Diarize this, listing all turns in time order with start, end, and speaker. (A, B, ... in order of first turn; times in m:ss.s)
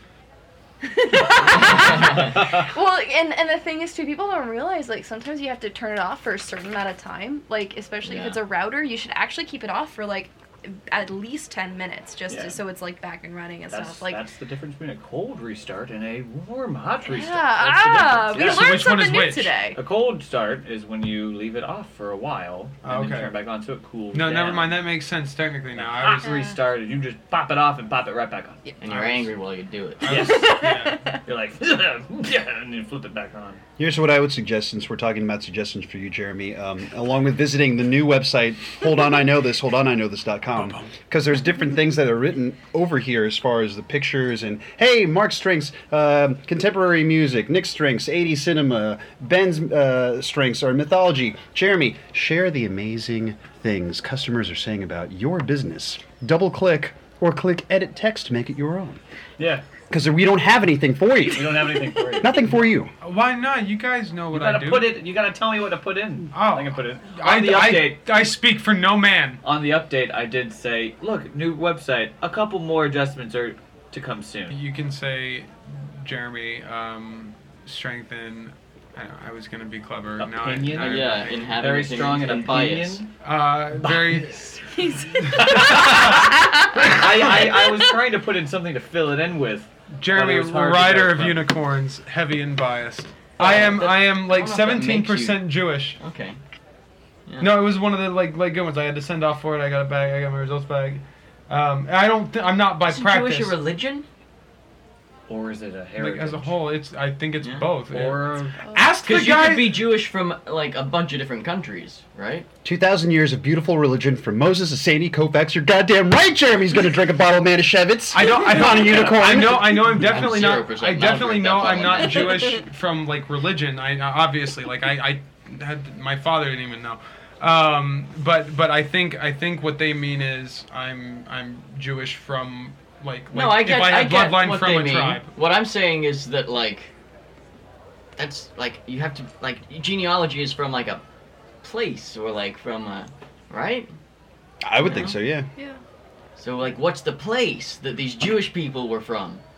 0:00.8-0:14.2 A
0:01.6-0:02.3 B
0:02.1-0:02.6 C
0:08.0-0:08.4 B
0:12.3-0:12.6 C
0:13.7-0:18.8 C
0:17.0-0:19.8 A
0:18.4-0:19.5 D
0:19.7-0:24.8 C
0:22.8-0:23.3 D
0:24.1-0:26.4 D
0:25.7-0:28.6 C
0:26.2-0:26.5 A
0:28.8-0:30.1 B
0:28.9-0:29.3 D
0:30.0-0:31.0 D
0:30.1-0:33.6 C
0:30.2-0:31.2 A
0:33.8-0:59.0 E
0:40.6-0:40.9 D
0:59.4-0:59.6 C
0:59.9-1:02.9 E
1:01.3-1:02.3 C
1:03.0-1:04.9 D
1:04.3-1:08.0 C
1:06.3-1:09.4 D
1:09.4-1:14.6 C
1:14.5-1:21.7 D
1:20.2-1:23.1 C
1:20.8-1:23.0 B
1:23.2-1:24.4 D
1:23.8-1:24.5 C
1:24.6-1:27.9 A
1:25.3-1:27.3 D
1:25.3-1:31.5 C
1:29.9-1:36.0 D
1:33.4-1:36.4 B
1:37.3-1:37.7 B
1:37.4-1:43.6 D
1:42.9-1:44.0 B
1:45.3-1:46.6 C
1:46.0-1:49.9 D
1:47.9-1:48.6 C
1:49.0-1:52.5 B
1:52.6-2:00.0 E
1:58.1-2:15.3 D
1:59.9-2:02.6 B
2:13.3-2:16.9 B
2:18.2-2:21.0 B
2:21.6-2:23.9 B
2:24.6-2:25.5 E
2:24.8-2:25.2 B
2:26.4-2:29.4 B